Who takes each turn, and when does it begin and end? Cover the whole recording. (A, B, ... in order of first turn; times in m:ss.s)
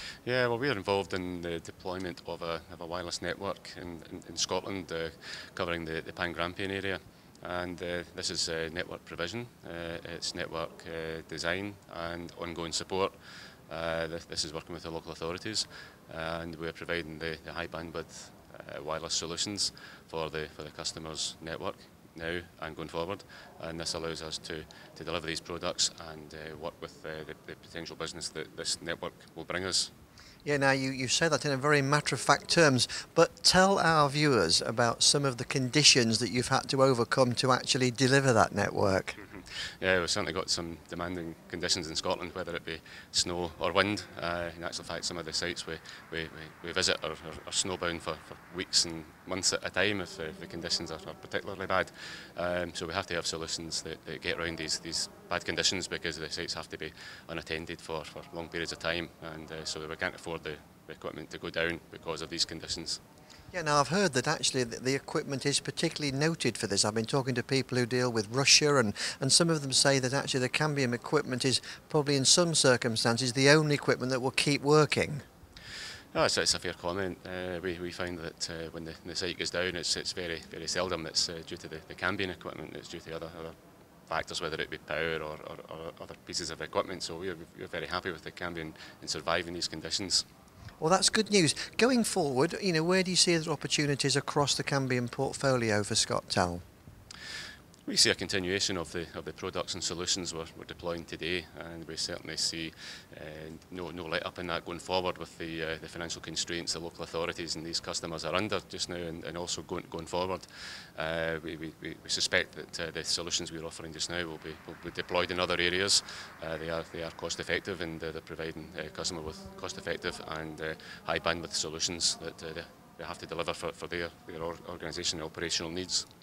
0:00.2-0:13.2 A
0:13.7-0:29.9 A
0:30.4-0:39.2 B
0:39.8-1:03.0 A
1:03.5-1:15.2 B
1:16.1-1:30.3 A
1:30.8-1:36.6 B
1:37.8-2:06.1 A